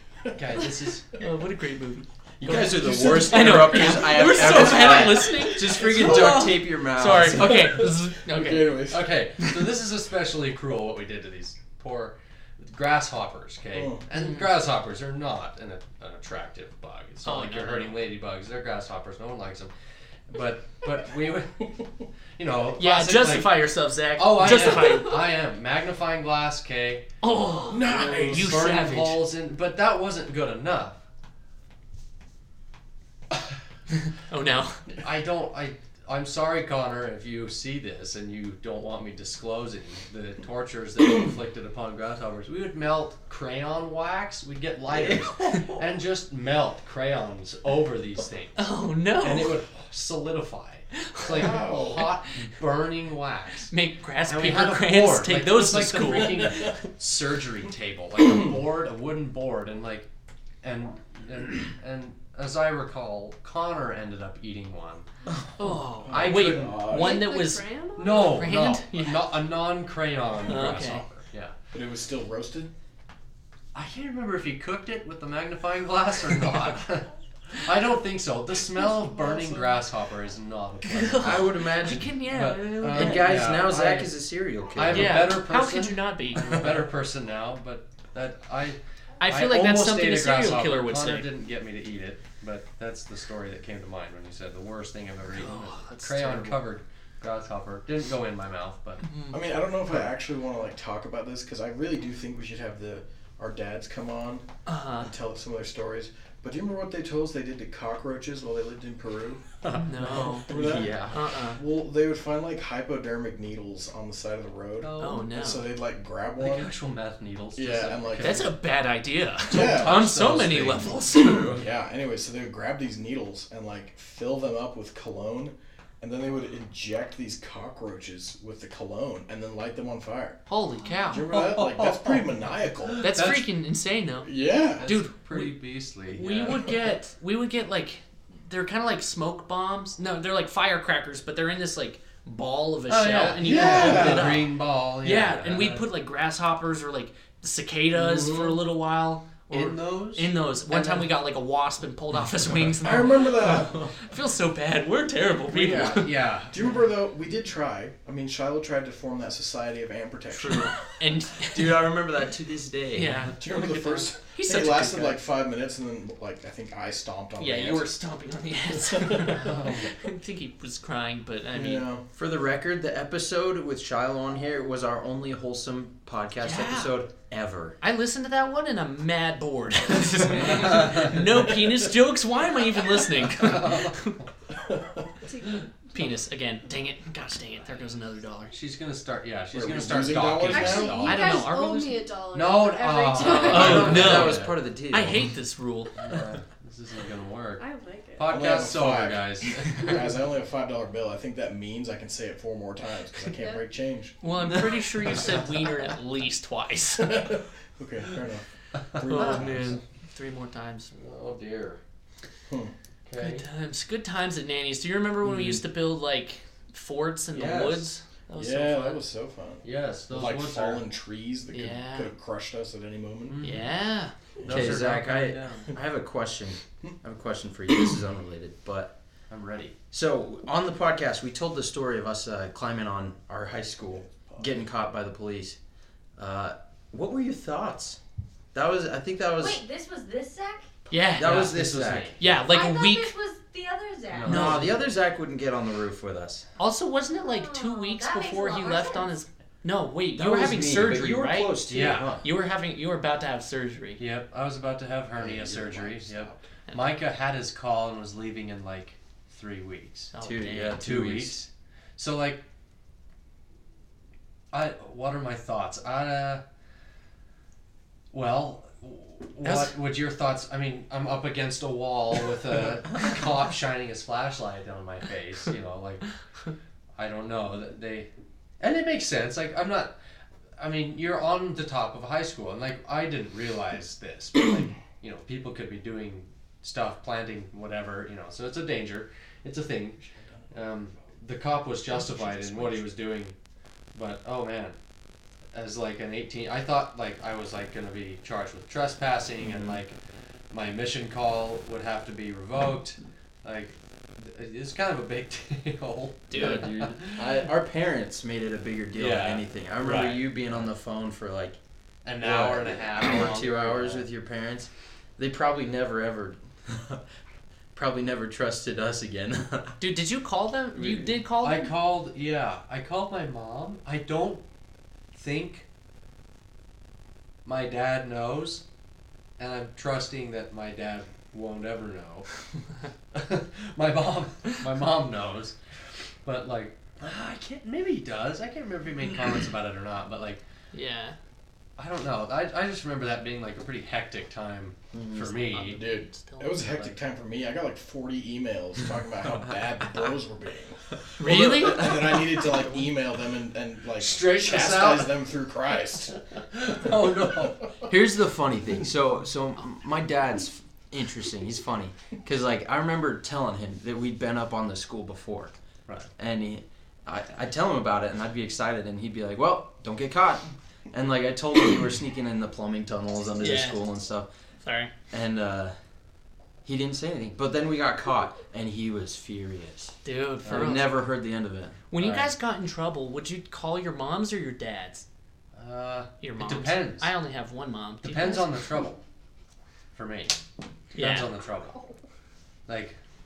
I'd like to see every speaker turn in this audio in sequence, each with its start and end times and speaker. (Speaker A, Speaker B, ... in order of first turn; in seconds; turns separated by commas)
Speaker A: 0.2-0.6, Speaker B: 0.3-1.1, Speaker C: 1.2-8.8, Speaker D: 2.4-7.8, Speaker A: 3.0-5.1, Speaker A: 7.3-9.1, Speaker B: 8.9-19.7, Speaker A: 13.7-14.0, Speaker C: 14.1-14.5, Speaker C: 17.2-18.0, Speaker B: 20.3-21.6, Speaker B: 22.4-23.6, Speaker C: 22.8-25.2, Speaker B: 24.1-27.1, Speaker C: 27.2-29.2, Speaker A: 27.7-28.5, Speaker B: 27.9-31.0, Speaker C: 34.3-34.8, Speaker B: 35.0-48.6, Speaker D: 44.9-45.7, Speaker C: 48.5-49.6, Speaker B: 49.2-53.7, Speaker C: 51.0-52.1, Speaker A: 51.2-52.1, Speaker C: 53.7-56.7, Speaker B: 54.2-60.1, Speaker A: 56.0-56.7, Speaker B: 60.6-65.0, Speaker C: 65.6-67.6, Speaker A: 66.0-67.2, Speaker B: 66.1-67.0, Speaker E: 66.9-68.5, Speaker B: 68.0-71.5, Speaker C: 68.2-69.3, Speaker C: 70.4-71.0, Speaker A: 71.7-72.7, Speaker B: 73.7-81.5, Speaker C: 80.9-83.4, Speaker D: 81.2-82.1, Speaker B: 82.3-84.1, Speaker D: 82.9-85.2, Speaker B: 84.7-99.1, Speaker C: 84.9-86.5, Speaker C: 89.2-91.3, Speaker C: 95.3-96.6, Speaker C: 99.1-99.4, Speaker A: 99.3-104.5, Speaker C: 104.7-105.1, Speaker A: 105.0-109.4, Speaker B: 109.6-110.3, Speaker C: 109.8-111.6, Speaker A: 110.0-116.7, Speaker D: 110.5-111.2, Speaker B: 114.8-115.2, Speaker C: 115.0-115.7, Speaker B: 116.4-118.5, Speaker A: 117.5-118.5, Speaker C: 118.2-121.6, Speaker A: 119.5-120.0, Speaker B: 119.5-121.7, Speaker A: 121.4-130.4, Speaker C: 130.5-131.3, Speaker A: 131.1-133.1, Speaker B: 131.3-133.5, Speaker C: 133.0-156.7, Speaker A: 134.2-134.9, Speaker B: 134.8-136.7, Speaker B: 142.9-145.9, Speaker A: 143.4-144.5, Speaker A: 148.0-148.6, Speaker B: 149.5-151.2, Speaker A: 152.8-153.9, Speaker B: 155.5-156.5, Speaker A: 156.5-160.8, Speaker C: 160.3-161.9, Speaker D: 161.4-163.3, Speaker C: 162.9-165.2, Speaker A: 163.4-167.9, Speaker C: 167.4-171.8, Speaker A: 168.7-169.5, Speaker B: 169.2-169.9, Speaker A: 171.5-172.0, Speaker D: 172.1-177.8, Speaker C: 176.4-176.9, Speaker C: 177.8-184.2, Speaker B: 180.4-181.2, Speaker B: 183.2-184.2, Speaker A: 184.7-185.1, Speaker E: 185.2-185.7, Speaker C: 185.9-188.5, Speaker B: 188.5-191.6, Speaker A: 189.5-191.1, Speaker E: 190.4-194.1, Speaker C: 191.0-192.0, Speaker B: 192.3-194.6, Speaker C: 193.2-196.0, Speaker D: 193.2-195.3, Speaker B: 196.0-197.6, Speaker E: 197.6-198.3, Speaker B: 198.2-200.1, Speaker A: 198.3-204.2, Speaker C: 204.2-207.3, Speaker A: 207.0-209.8, Speaker B: 209.0-209.6, Speaker C: 209.0-210.9, Speaker B: 210.9-211.8, Speaker B: 213.1-213.4, Speaker C: 213.2-219.0, Speaker B: 215.3-215.6, Speaker B: 217.3-217.9, Speaker A: 218.3-223.4, Speaker B: 219.6-220.8, Speaker C: 221.5-222.1, Speaker B: 223.3-223.7, Speaker C: 223.4-224.1, Speaker B: 224.4-225.7, Speaker D: 224.4-228.9, Speaker A: 224.5-224.8, Speaker B: 229.3-229.7, Speaker D: 229.9-235.6, Speaker A: 234.1-234.6, Speaker D: 236.2-238.0, Speaker D: 238.5-239.6, Speaker F: 239.4-240.7, Speaker C: 240.9-241.6, Speaker D: 241.2-242.2, Speaker B: 241.2-242.2, Speaker C: 242.2-243.1, Speaker F: 242.4-244.5, Speaker B: 244.1-244.8, Speaker D: 244.2-246.4, Speaker C: 244.3-244.8, Speaker C: 246.6-251.6, Speaker F: 247.2-249.1, Speaker D: 250.2-252.3, Speaker B: 251.7-252.2, Speaker C: 252.2-254.0, Speaker B: 254.0-260.1, Speaker A: 255.2-256.4, Speaker C: 260.1-260.8, Speaker D: 260.2-261.5, Speaker B: 260.7-262.4, Speaker B: 264.5-266.4, Speaker B: 268.1-276.1, Speaker C: 269.4-269.7, Speaker B: 277.0-278.1, Speaker B: 278.6-279.9, Speaker B: 280.6-293.3, Speaker A: 290.0-290.4, Speaker C: 292.2-292.6, Speaker B: 293.9-294.7, Speaker B: 295.5-299.9, Speaker B: 300.5-307.4, Speaker C: 306.3-306.7, Speaker D: 306.3-311.6, Speaker B: 308.9-310.7, Speaker B: 312.0-314.0, Speaker D: 312.2-317.0, Speaker D: 317.7-319.8, Speaker C: 319.8-321.7, Speaker D: 320.8-321.0, Speaker B: 321.4-324.4, Speaker B: 325.1-325.6, Speaker B: 327.4-328.6, Speaker B: 329.4-332.3, Speaker B: 333.1-335.5, Speaker B: 336.2-340.4, Speaker C: 340.7-341.1, Speaker B: 341.8-345.8, Speaker D: 344.9-345.3, Speaker C: 345.3-346.8, Speaker A: 345.7-356.1, Speaker C: 351.2-352.2, Speaker B: 354.0-355.2, Speaker B: 356.5-357.6, Speaker D: 357.9-365.5, Speaker D: 366.2-374.3, Speaker C: 373.4-373.8, Speaker C: 374.6-374.9, Speaker D: 375.1-375.7, Speaker D: 376.6-381.8, Speaker C: 380.0-381.0, Speaker B: 380.4-380.8, Speaker C: 381.9-385.0, Speaker B: 382.0-382.3, Speaker B: 385.6-387.1, Speaker C: 386.2-388.5, Speaker B: 388.0-389.0, Speaker B: 389.9-390.4, Speaker B: 390.9-391.8, Speaker C: 390.9-391.3, Speaker B: 392.7-393.0